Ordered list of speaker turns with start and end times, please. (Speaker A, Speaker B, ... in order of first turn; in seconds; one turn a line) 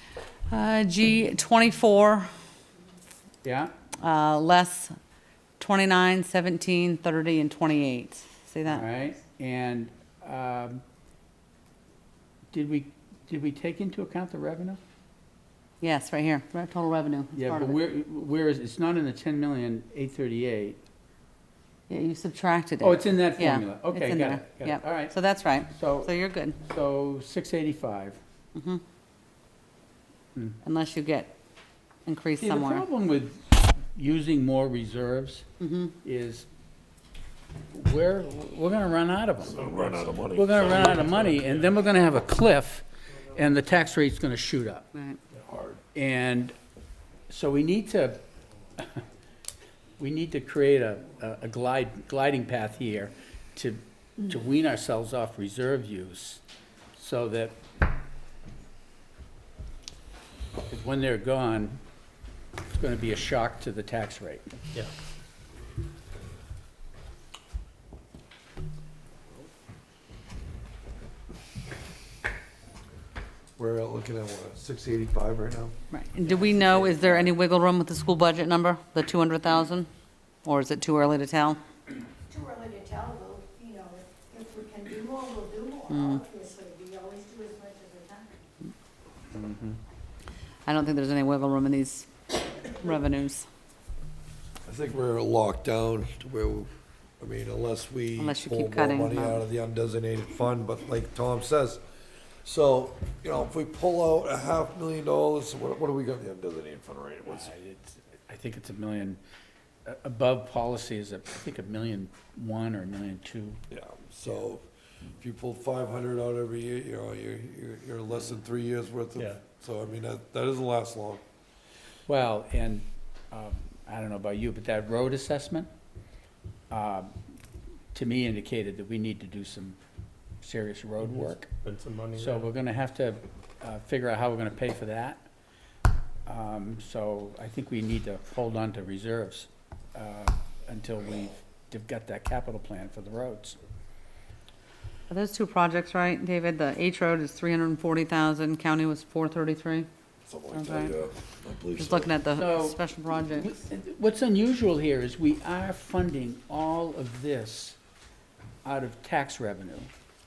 Speaker A: 0.5-2.3
Speaker B: 3.4-3.7
Speaker A: 4.0-5.0
Speaker A: 5.6-8.8
Speaker B: 8.7-10.8
Speaker B: 12.5-14.8
Speaker A: 15.8-17.8
Speaker B: 17.4-20.8
Speaker A: 21.9-26.6
Speaker B: 22.8-25.1
Speaker B: 25.7-28.2
Speaker A: 28.5-28.8
Speaker A: 30.6-31.3
Speaker A: 32.0-32.9
Speaker B: 32.4-35.5
Speaker A: 35.6-35.9
Speaker B: 36.0-36.5
Speaker B: 37.7-44.9
Speaker C: 39.5-41.1
Speaker D: 41.0-41.6
Speaker A: 44.9-45.2
Speaker C: 45.5-45.8
Speaker B: 45.8-46.5
Speaker B: 47.3-48.2
Speaker B: 50.0-56.4
Speaker B: 57.0-57.6
Speaker B: 60.7-61.8
Speaker B: 62.7-64.5
Speaker C: 73.6-77.3
Speaker A: 75.9-79.9
Speaker A: 80.4-81.6
Speaker E: 82.3-88.3
Speaker A: 85.9-86.2
Speaker B: 89.3-89.8
Speaker A: 90.7-93.5
Speaker C: 94.7-101.8
Speaker A: 98.2-99.4
Speaker C: 102.4-107.5
Speaker B: 107.3-109.2
Speaker B: 109.8-113.6
Speaker C: 113.7-114.7
Speaker C: 115.2-121.2
Speaker D: 119.2-119.4
Speaker B: 122.1-125.7
Speaker B: 126.7-127.1
Speaker B: 127.9-129.8
Speaker B: 130.4-131.5
Speaker D: 131.0-132.5
Speaker B: 132.2-135.2
Speaker B: 136.2-143.6
Speaker A: 145.1-149.9
Speaker C: 150.2-152.2
Speaker A: 150.5-150.9
Speaker A: 151.7-153.5
Speaker B: 152.3-157.8
Speaker B: 158.6-159.9